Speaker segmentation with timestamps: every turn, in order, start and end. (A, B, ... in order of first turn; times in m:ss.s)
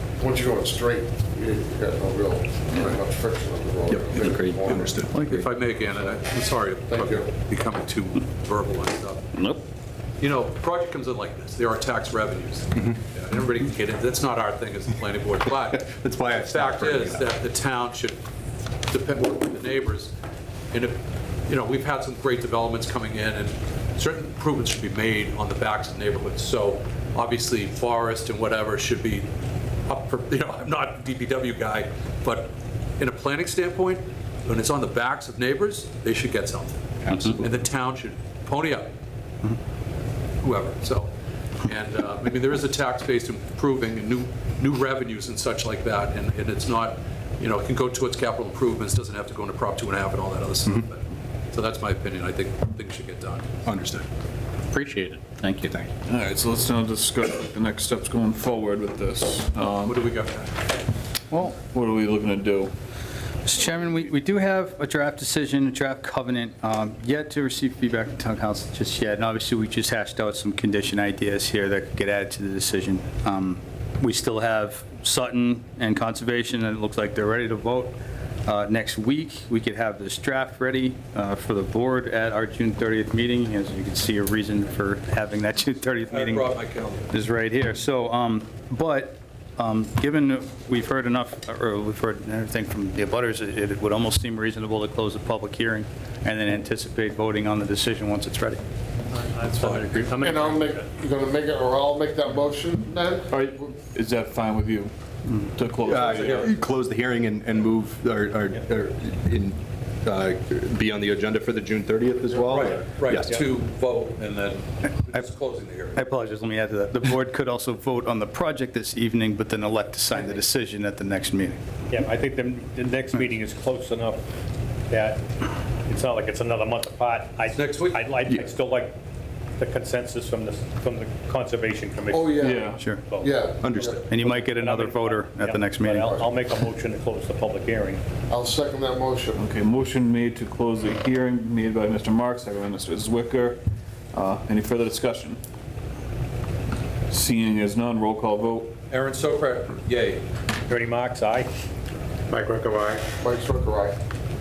0:00.2-0:04.9 A
0:03.9-0:05.5 B
0:04.6-0:09.3 C
0:05.1-0:05.4 D
0:06.9-0:07.3 A
0:10.2-0:18.2 C
0:15.6-0:17.3 B
0:18.9-0:20.1 C
0:20.7-0:29.3 C
0:29.9-0:38.9 C
0:40.4-0:41.1 C
0:41.6-0:53.5 C
0:53.6-0:54.1 B
0:55.6-0:55.9 B
0:56.0-1:00.0 E
0:59.8-1:00.6 C
1:01.5-1:02.7 E
1:03.4-1:26.5 D
1:26.1-1:27.1 C
1:27.1-1:38.6 D
1:39.1-1:40.8 F
1:39.5-1:40.2 C
1:40.2-1:43.6 A
1:43.3-1:46.5 E
1:45.8-1:53.4 B
1:46.0-1:46.5 C
1:52.5-1:56.0 C
1:55.9-2:01.6 D
2:01.9-2:04.2 F
2:04.9-2:05.2 F
2:05.8-2:09.0 F
2:07.5-2:08.0 C
2:09.6-2:18.0 F
2:12.1-2:14.1 A
2:12.4-2:12.8 E
2:12.8-2:13.0 D
2:13.6-2:13.9 B
2:14.0-2:16.2 D
2:18.3-2:19.4 A
2:19.3-2:23.6 E
2:24.1-2:25.4 E
2:27.1-2:28.7 E
2:28.9-2:30.2 C
2:30.7-2:31.5 F
2:32.3-2:33.0 F
2:33.2-2:34.0 A